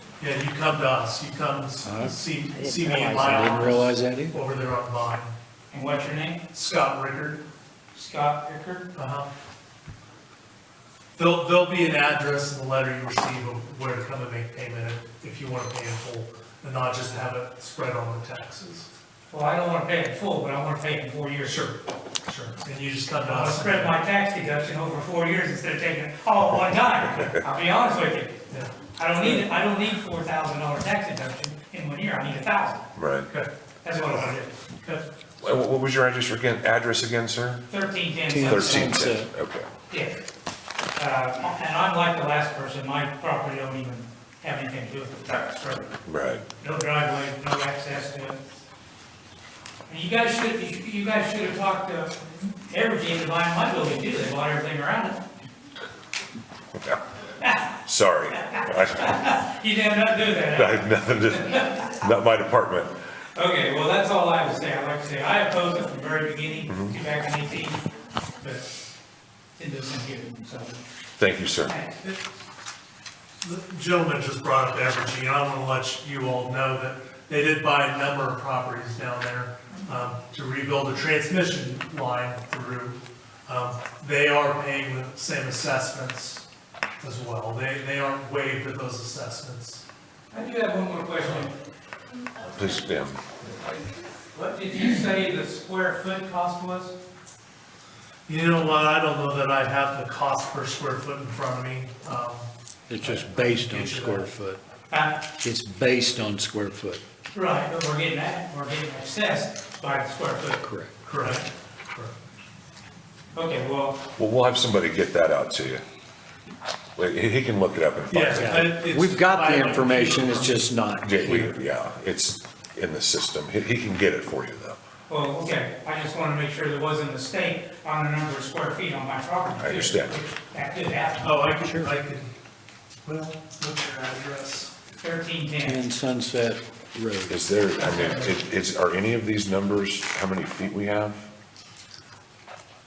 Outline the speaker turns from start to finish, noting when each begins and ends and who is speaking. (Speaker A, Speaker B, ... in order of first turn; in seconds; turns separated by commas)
Speaker A: 0.2-5.4, Speaker B: 1.8-4.4, Speaker C: 5.7-6.4, Speaker A: 6.5-7.4, Speaker C: 7.9-8.9, Speaker A: 8.9-9.3, Speaker A: 11.2-18.9, Speaker C: 19.3-21.7, Speaker A: 21.5-24.0, Speaker C: 23.2-28.4, Speaker A: 28.5-28.8, Speaker C: 28.9-32.9, Speaker D: 33.0-33.3, Speaker C: 33.8-34.5, Speaker D: 35.4-37.6, Speaker C: 37.7-39.0, Speaker B: 38.3-39.3, Speaker D: 38.4-39.7, Speaker C: 39.9-40.2, Speaker C: 41.0-45.9, Speaker D: 46.0-46.5, Speaker C: 46.6-48.4, Speaker C: 49.9-55.2, Speaker C: 57.4-57.7, Speaker D: 57.9-59.4, Speaker C: 58.3-61.9, Speaker D: 60.5-63.0, Speaker C: 63.4-67.8, Speaker D: 66.7-67.0, Speaker C: 69.6-70.8, Speaker D: 71.2-71.7, Speaker C: 71.7-72.0, Speaker A: 73.4-86.5, Speaker A: 87.0-89.8, Speaker C: 90.3-91.5, Speaker D: 92.5-93.2, Speaker C: 94.3-96.9, Speaker A: 98.3-104.3, Speaker B: 102.9-104.6, Speaker C: 104.9-105.2, Speaker B: 105.4-107.0, Speaker C: 107.3-110.6, Speaker B: 110.6-110.9, Speaker A: 111.0-112.1, Speaker C: 113.3-114.0, Speaker D: 114.2-115.8, Speaker D: 117.0-118.7, Speaker A: 118.1-120.7, Speaker B: 118.3-121.5, Speaker D: 121.0-124.8, Speaker C: 125.1-131.4, Speaker D: 129.6-130.2, Speaker A: 131.2-132.3, Speaker B: 131.6-131.9, Speaker A: 133.1-134.7, Speaker C: 135.0-135.9, Speaker B: 135.6-137.5, Speaker D: 137.3-141.3, Speaker A: 137.8-138.4